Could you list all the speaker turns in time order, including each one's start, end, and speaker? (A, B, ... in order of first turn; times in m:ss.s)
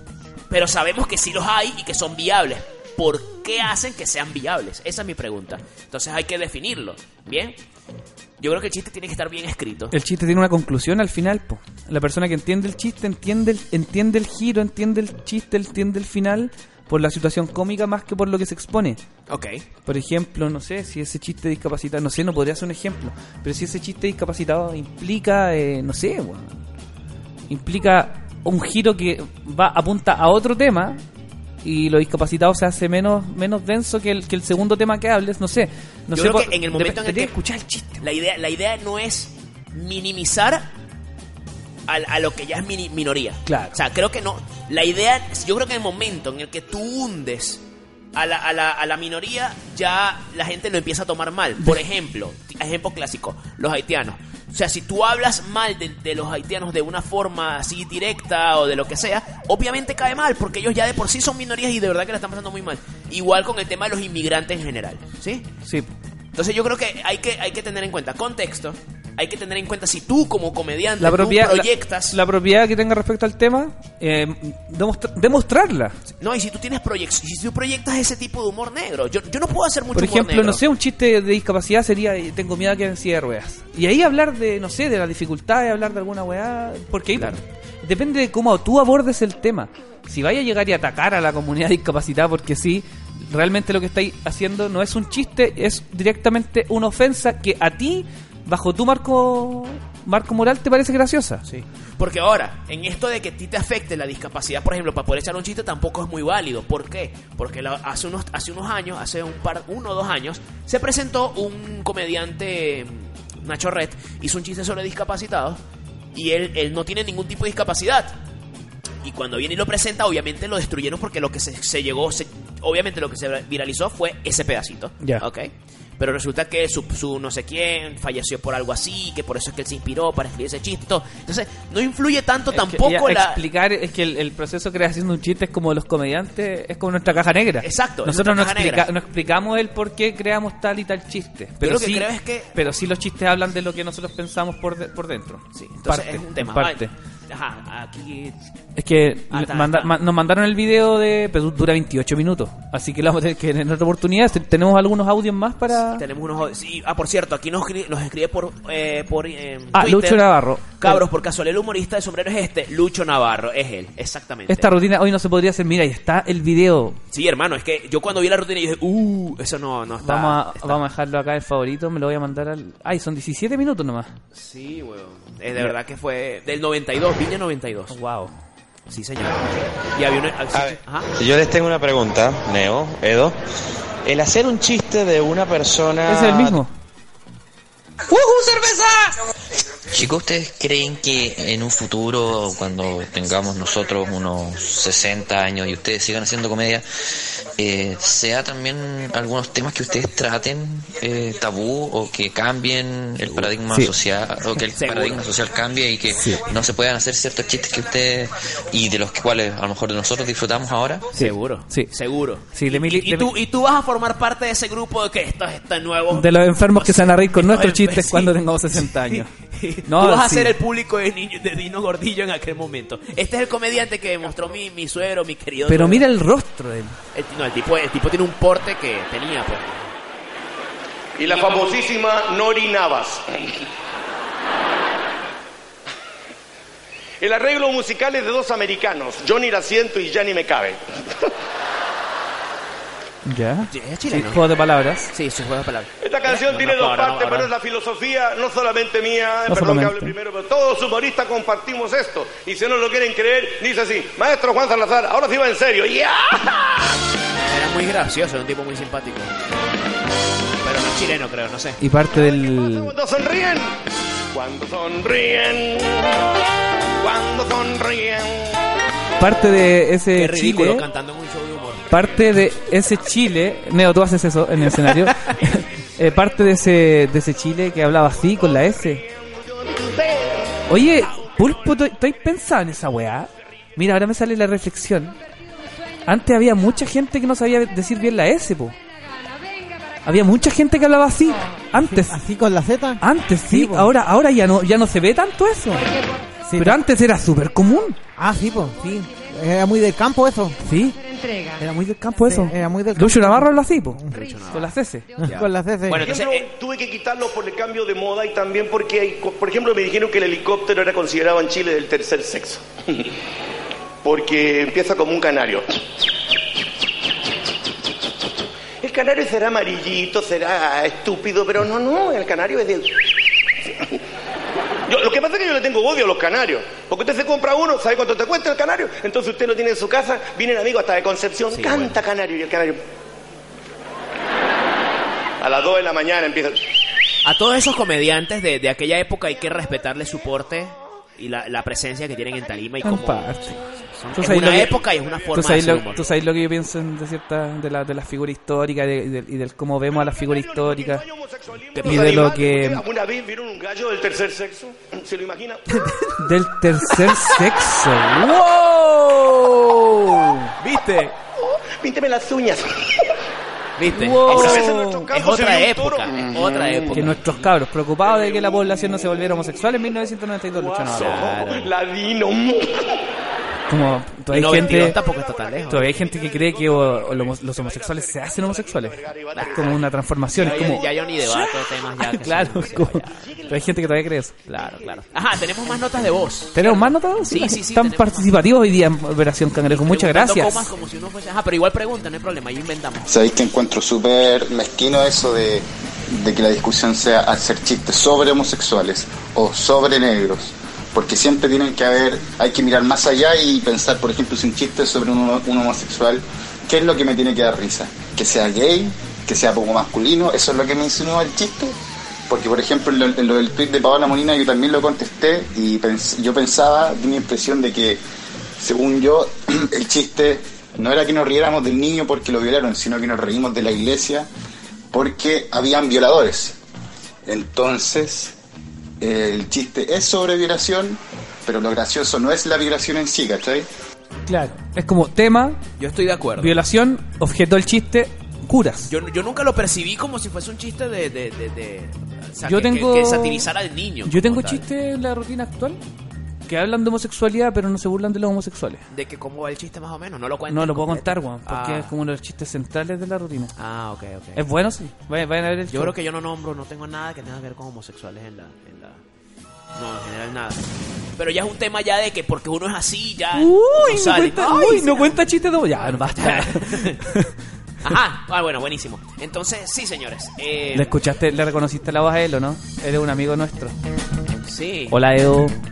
0:00.5-0:07.6 A
0:08.4-0:09.9 A
0:09.9-0:19.0 B
0:19.3-0:19.6 A
0:19.8-0:26.6 B
0:27.5-0:31.0 B
0:31.6-0:38.0 B
0:36.1-0:37.3 A
0:38.0-0:40.7 A
0:41.9-0:47.6 A
0:43.4-0:43.7 B
0:48.1-1:05.5 A
1:05.6-1:05.9 B
1:06.3-1:12.2 A
1:11.0-1:16.0 B
1:16.2-1:20.6 A
1:19.9-1:41.4 B
1:27.1-1:27.4 A
1:41.5-1:55.6 A
1:56.1-1:58.1 A
1:59.0-2:13.4 A
2:12.5-2:26.9 B
2:17.6-2:18.9 A
2:21.6-2:22.6 A
2:25.5-2:28.4 A
2:28.8-2:36.0 B
2:29.3-2:29.9 A
2:36.0-2:44.7 A
2:39.7-2:41.0 B
2:44.5-2:47.0 B
2:47.1-2:50.8 A
2:50.0-2:54.1 B
2:54.3-2:57.9 A
2:57.9-2:58.3 B
2:58.9-3:01.1 A
3:00.5-3:03.4 C
3:04.0-3:06.6 C
3:06.1-3:06.7 B
3:08.1-3:09.1 D
3:09.9-3:31.2 D
3:24.7-3:25.3 A
3:31.1-3:31.9 B
3:31.2-3:46.0 A
3:32.5-3:33.3 B
3:36.1-3:39.3 B
3:39.9-3:40.5 B
3:45.7-3:47.0 B
3:47.1-3:49.9 A
3:51.2-3:53.4 E
3:57.2-4:00.8 E
4:03.2-4:05.1 B
4:03.7-4:04.4 A
4:05.1-4:07.5 A
4:06.0-4:16.9 E
4:09.5-4:10.1 B
4:17.4-4:19.3 A
4:20.6-4:21.8 A
4:21.8-4:22.9 B
4:22.1-4:23.8 E
4:24.3-4:26.2 E
4:27.0-4:28.6 E
4:29.2-4:30.8 B
4:30.1-4:32.0 A
4:31.9-4:39.0 B
4:34.8-4:35.3 A
4:39.1-4:40.5 E
4:40.7-4:45.2 B
4:46.1-4:48.7 B
4:50.0-4:52.2 B
4:51.9-4:53.9 F
4:53.0-4:55.9 B
4:56.5-4:56.8 F
4:56.5-4:58.0 B
4:58.2-5:00.6 F
5:00.6-5:01.0 B
5:01.5-5:05.1 B
5:02.2-5:04.4 F
5:04.1-5:06.5 A
5:05.2-5:06.1 F
5:06.0-5:13.1 E
5:14.0-5:15.6 E
5:18.8-5:23.1 E
5:24.9-5:32.8 E
5:31.5-5:31.9 A
5:35.4-5:36.7 E
5:37.2-5:46.0 A
5:42.8-5:43.6 B
5:44.1-5:44.8 B
5:45.3-5:51.0 B
5:49.9-5:55.9 E
5:51.7-5:52.3 A
5:51.8-5:52.8 B
5:56.2-6:00.5 B
6:00.6-6:01.1 A
6:01.4-6:03.0 E
6:03.8-6:07.5 A
6:03.9-6:05.1 B
6:04.3-6:07.1 E
6:06.9-6:11.4 B
6:08.0-6:08.6 E
6:10.5-6:12.9 E
6:11.0-6:11.7 A
6:13.7-6:15.0 B
6:14.3-6:15.9 A
6:14.6-6:21.1 E
6:15.7-6:24.3 B
6:19.3-6:19.8 A
6:20.3-6:23.3 A
6:22.5-6:26.0 E
6:24.5-6:28.4 A
6:26.5-6:30.7 B
6:29.7-6:33.1 A
6:33.1-6:51.8 G
6:52.3-6:58.0 G
6:58.6-7:04.3 G
7:04.9-7:06.6 G
7:07.2-7:08.3 G
7:09.0-7:13.7 G
7:14.3-7:15.6 B
7:15.8-7:16.5 A
7:16.4-7:18.9 B
7:18.9-7:24.6 A
7:22.4-7:23.5 B
7:24.0-7:25.8 B
7:26.5-7:28.8 B
7:28.9-7:31.9 A
7:30.5-7:33.5 B
7:33.6-7:34.4 A
7:34.3-7:35.9 B
7:35.7-7:39.0 A
7:39.7-7:40.6 A
7:41.2-7:45.2 A
7:43.3-7:47.3 B
7:45.9-7:47.0 A
7:47.8-7:50.9 A
7:50.7-7:53.7 B
7:54.4-7:55.0 A
7:54.9-7:55.6 B